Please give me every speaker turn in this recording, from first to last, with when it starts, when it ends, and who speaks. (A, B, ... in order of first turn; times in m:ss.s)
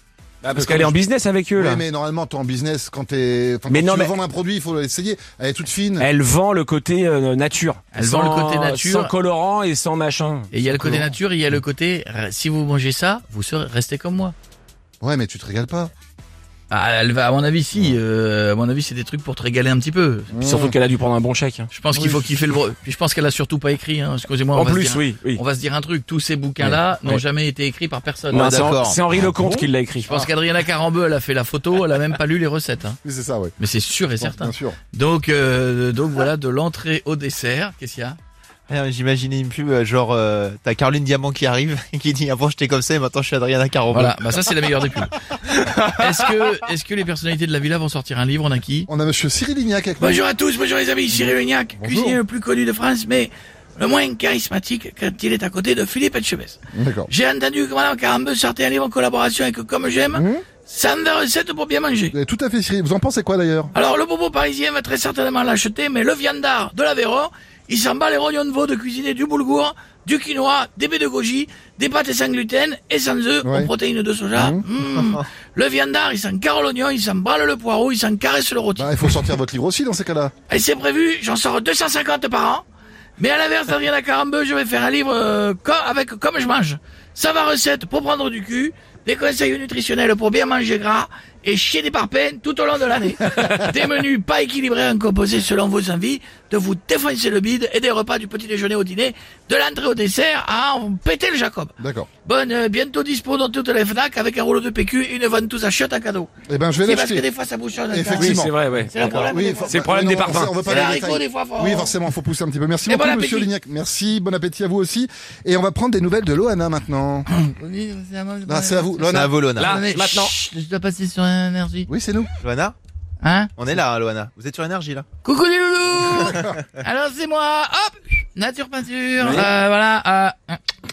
0:00.4-0:01.8 A
0:00.5-0:01.0 B
0:01.6-0:06.1 B
0:03.7-0:04.1 A
0:06.0-0:10.5 A
0:07.9-0:09.1 C
0:10.5-0:14.3 C
0:10.6-0:11.1 B
0:15.0-0:15.9 B
0:16.7-0:20.3 C
0:20.3-0:20.8 B
0:20.4-0:21.7 A
0:21.7-0:28.8 C
0:21.9-0:22.3 B
0:24.5-0:25.4 A
0:28.3-0:30.1 A
0:28.3-0:29.0 D
0:29.2-0:30.3 B
0:30.0-0:33.0 C
0:33.0-0:33.6 B
0:33.6-0:38.2 C
0:34.2-0:34.8 B
0:38.7-0:44.2 D
0:43.9-0:45.1 C
0:45.8-0:48.9 C
0:48.9-0:50.2 B
0:50.0-1:02.1 C
0:51.1-0:52.2 B
0:56.7-0:57.1 B
1:00.1-1:00.4 B
1:02.1-1:03.7 B
1:03.7-1:18.9 C
1:13.4-1:13.7 B
1:14.3-1:14.6 B
1:18.8-1:20.3 B
1:20.5-1:22.6 C
1:23.2-1:41.7 C
1:41.8-1:42.1 B
1:42.2-1:46.3 C
1:46.5-1:47.2 B
1:46.8-1:49.9 C
1:47.9-1:57.3 B
1:48.2-1:50.7 A
1:50.6-1:51.9 C
1:52.8-1:53.5 C
1:57.3-2:01.9 C
1:58.5-1:59.3 B
1:59.1-1:59.8 D
1:59.5-2:00.3 A
2:01.9-2:02.3 B
2:02.4-2:02.8 D
2:03.2-2:03.5 C
2:03.6-2:05.1 D
2:05.2-2:10.6 C
2:06.1-2:06.5 B